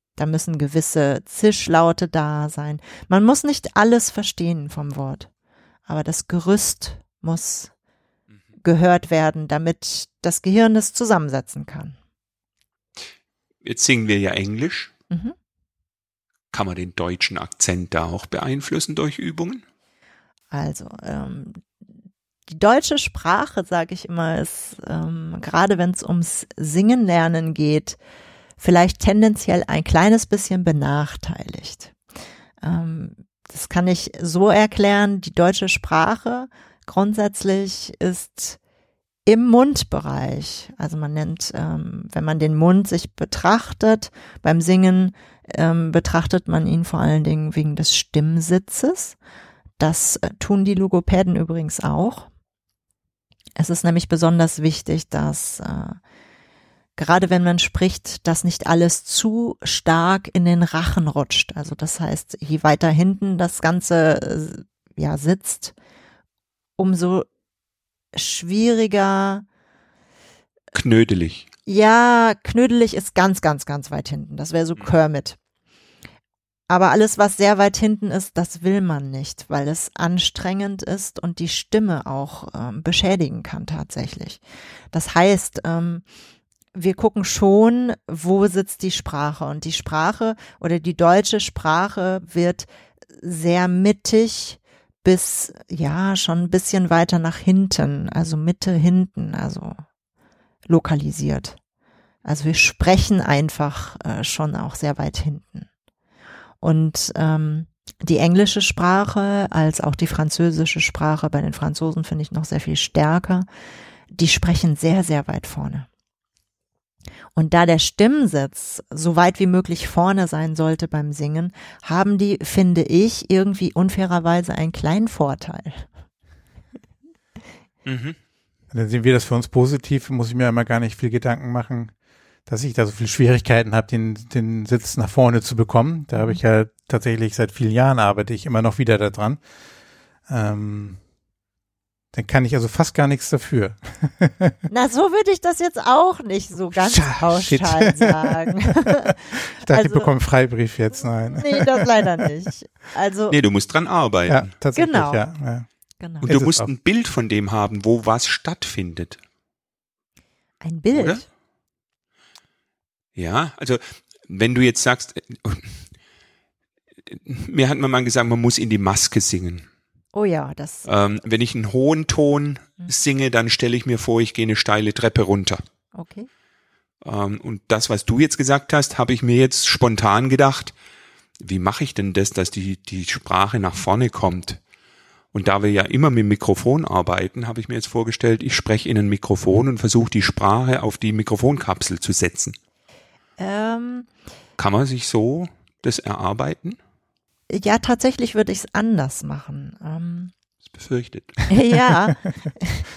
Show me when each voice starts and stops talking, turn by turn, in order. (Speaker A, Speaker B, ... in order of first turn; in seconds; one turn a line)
Speaker A: 0.2-5.3
Speaker A: 5.9-7.7
Speaker A: 8.6-12.0
Speaker B: 13.6-14.9
Speaker A: 15.1-15.3
Speaker B: 16.5-19.6
Speaker A: 20.5-21.6
Speaker A: 22.5-28.0
Speaker A: 28.6-31.9
Speaker A: 32.6-38.6
Speaker A: 39.3-49.2
Speaker A: 49.8-52.3
Speaker A: 53.6-56.0
Speaker A: 57.0-65.7
Speaker A: 66.8-67.3
Speaker A: 68.1-69.5
Speaker B: 70.7-71.5
Speaker A: 71.7-75.4
Speaker A: 76.7-86.0
Speaker A: 86.7-92.7
Speaker A: 93.2-99.8
Speaker A: 100.7-101.6
Speaker A: 102.2-105.7
Speaker A: 106.6-113.5
Speaker A: 114.1-115.9
Speaker A: 117.3-125.9
Speaker B: 127.8-128.2
Speaker C: 128.7-131.9
Speaker C: 132.5-139.4
Speaker C: 140.3-141.0
Speaker C: 142.1-144.6
Speaker A: 144.7-150.1
Speaker C: 146.7-152.2
Speaker A: 151.2-153.4
Speaker B: 153.3-154.5
Speaker C: 154.3-155.7
Speaker A: 154.8-155.2
Speaker A: 156.0-156.3
Speaker B: 156.2-159.2
Speaker C: 156.2-156.7
Speaker A: 160.6-161.2
Speaker B: 160.9-161.2
Speaker B: 163.2-165.8
Speaker B: 167.1-169.7
Speaker A: 170.1-170.9
Speaker B: 170.9-175.6
Speaker A: 175.9-176.3
Speaker B: 177.0-180.7
Speaker B: 181.4-184.6
Speaker B: 185.3-192.6
Speaker A: 193.4-194.1
Speaker B: 194.6-196.8
Speaker A: 197.5-200.3
Speaker B: 200.7-201.4
Speaker A: 201.5-202.8